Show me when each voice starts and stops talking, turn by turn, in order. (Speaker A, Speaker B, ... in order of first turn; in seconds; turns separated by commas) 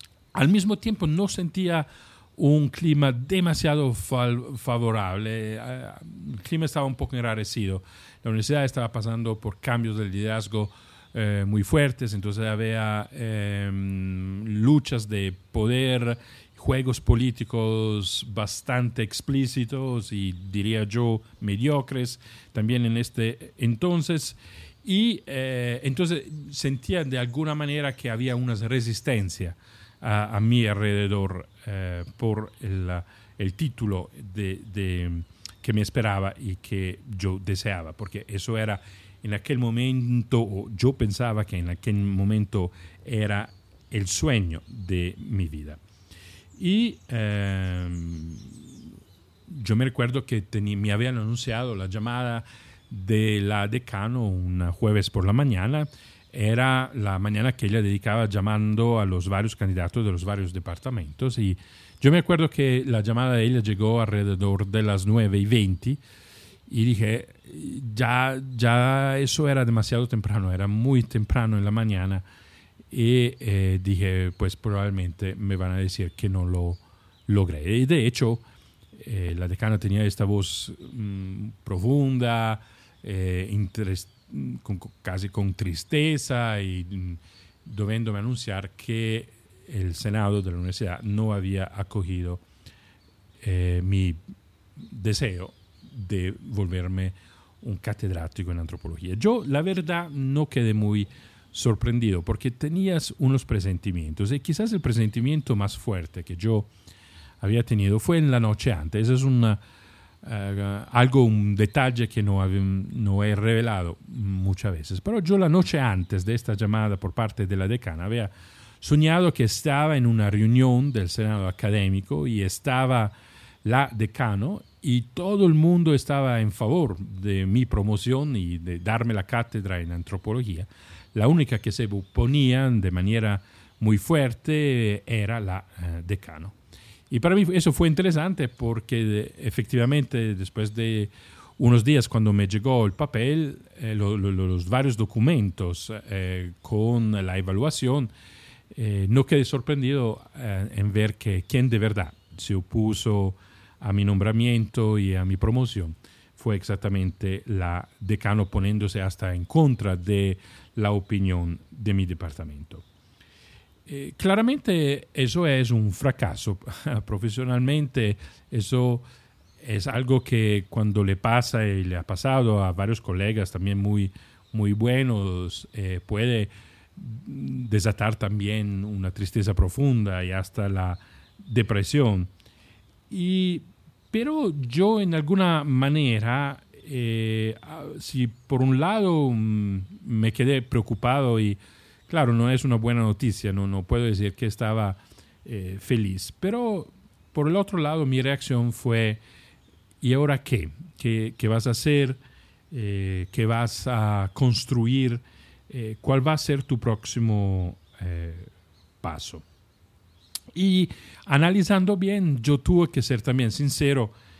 Speaker A: 0.3-45.8, Speaker A: 46.6-48.7, Speaker A: 49.5-66.0, Speaker A: 66.7-72.2, Speaker A: 72.9-78.4, Speaker A: 79.0-92.4, Speaker A: 93.4-94.2, Speaker A: 94.8-106.7, Speaker A: 107.4-109.6, Speaker A: 110.2-136.6, Speaker A: 137.1-148.1, Speaker A: 148.7-162.8, Speaker A: 163.9-169.1, Speaker A: 169.6-182.3, Speaker A: 183.1-199.2, Speaker A: 200.0-202.2, Speaker A: 202.7-209.5, Speaker A: 210.5-214.2